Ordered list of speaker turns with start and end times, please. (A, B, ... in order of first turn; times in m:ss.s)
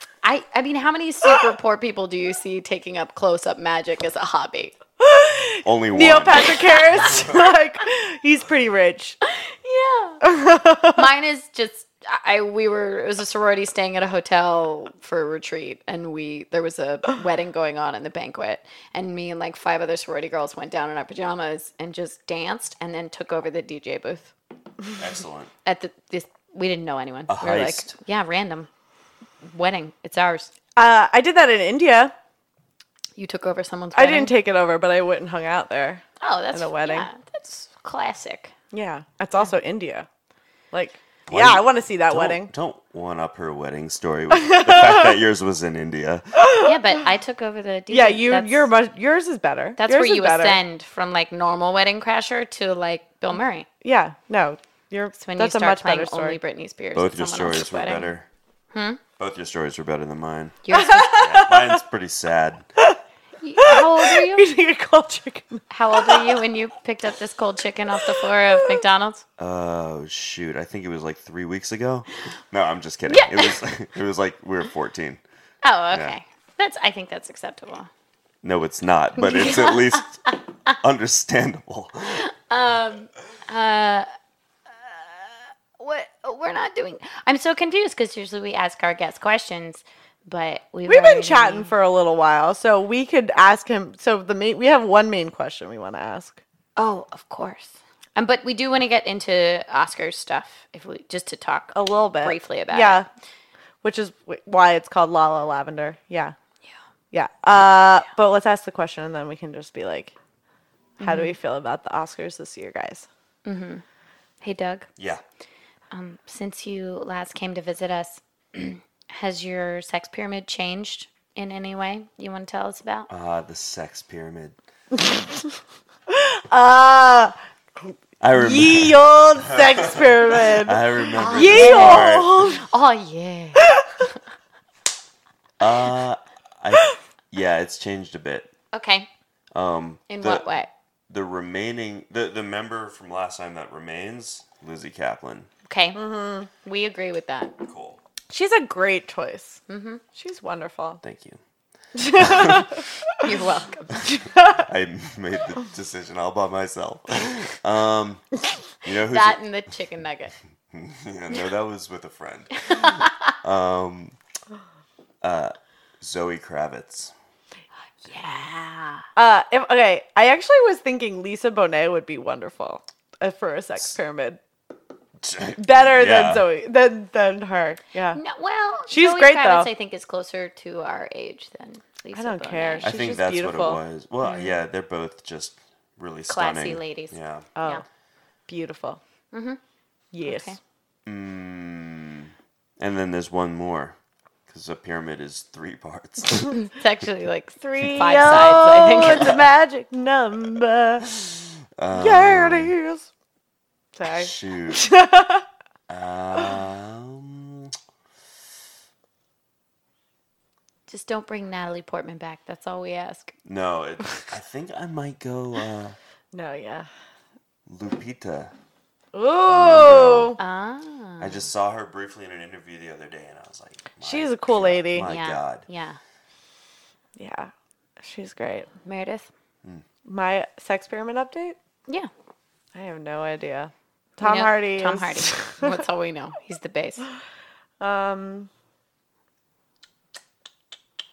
0:00.2-0:04.7 A
0:05.0-0:09.2 B
0:05.6-0:07.4 C
0:09.3-0:10.2 A
0:10.2-0:11.0 B
0:10.9-0:24.3 A
0:25.0-0:25.5 C
0:25.6-0:28.7 A
0:27.3-0:27.9 C
0:29.4-0:30.5 A
0:30.8-0:32.1 B
0:33.2-0:34.3 A
0:33.9-0:37.1 B
0:36.2-0:38.5 A
0:38.7-0:40.0 B
0:40.7-0:42.5 B
0:41.3-0:46.2 C
0:44.3-0:45.1 B
0:46.4-0:46.7 B
0:46.6-0:48.7 A
0:47.9-0:50.6 B
0:49.8-0:53.7 A
0:53.8-0:56.4 B
0:55.2-0:58.1 A
0:56.9-0:58.3 C
0:58.7-0:59.0 A
0:59.2-1:00.6 C
1:00.6-1:01.3 A
1:00.7-1:01.8 B
1:01.2-1:02.6 C
1:03.4-1:04.5 A
1:03.6-1:06.4 B
1:05.7-1:09.2 A
1:09.4-1:15.2 C
1:13.1-1:13.6 A
1:15.6-1:17.9 A
1:15.9-1:16.2 C
1:18.4-1:20.2 C
1:19.2-1:20.8 A
1:20.8-1:22.2 C
1:22.1-1:24.1 A
1:24.7-1:31.7 A
1:30.9-1:36.4 B
1:36.8-1:43.0 A
1:41.7-1:43.1 B
1:43.8-1:46.3 B
1:47.1-1:50.2 B
1:51.0-1:51.3 A
1:51.0-1:53.1 B
1:53.4-1:53.8 A
1:54.4-1:54.8 A
1:55.0-1:55.2 C
1:55.9-2:03.1 A
2:03.1-2:04.6 C
2:06.1-2:12.6 B
2:08.2-2:12.5 C
2:11.2-2:13.7 A
2:15.6-2:18.5 C
2:18.7-2:19.1 A
2:19.5-2:20.4 C
2:20.1-2:20.7 A
2:21.1-2:25.5 C
2:25.7-2:26.0 A
2:25.9-2:26.5 B
2:26.6-2:27.5 A
2:27.6-2:28.0 C
2:28.3-2:29.6 B
2:29.7-2:30.0 A
2:30.1-2:31.0 B
2:31.0-2:31.4 C
2:31.9-2:32.8 B
2:32.2-2:32.7 C
2:33.2-2:34.2 A
2:34.0-2:34.7 B
2:34.6-2:38.2 C
2:38.8-2:39.4 C
2:39.0-2:40.3 A
2:40.7-2:44.2 C
2:42.7-2:43.3 A
2:45.2-2:47.1 C
2:48.0-2:49.0 A
2:49.2-2:54.4 B
2:55.2-2:56.4 C
2:55.6-2:58.2 B
2:58.1-3:02.9 A
2:58.9-2:59.7 B
3:02.1-3:03.8 B
3:02.8-3:07.5 C
3:04.2-3:04.6 A
3:06.3-3:07.8 A
3:07.6-3:07.8 B
3:08.5-3:09.0 B
3:09.3-3:09.6 A
3:10.1-3:10.6 B
3:10.2-3:10.6 A
3:11.0-3:14.0 C
3:14.5-3:16.6 C
3:16.5-3:19.4 A
3:17.6-3:21.1 B
3:21.1-3:22.7 C
3:21.9-3:23.1 B
3:23.9-3:25.4 B
3:24.0-3:24.8 C
3:25.9-3:27.8 C
3:30.9-3:33.3 A
3:33.4-3:36.0 C
3:36.3-3:36.9 B
3:37.7-3:38.5 C
3:39.1-3:40.4 B
3:39.5-3:40.4 C
3:40.4-3:41.4 A
3:41.2-3:45.6 C
3:44.0-3:45.1 B
3:45.0-3:46.0 A
3:47.2-3:48.7 B
3:48.8-3:49.3 A
3:50.0-3:51.6 B
3:52.7-3:55.8 B
3:54.2-3:57.0 A
3:57.8-3:58.5 B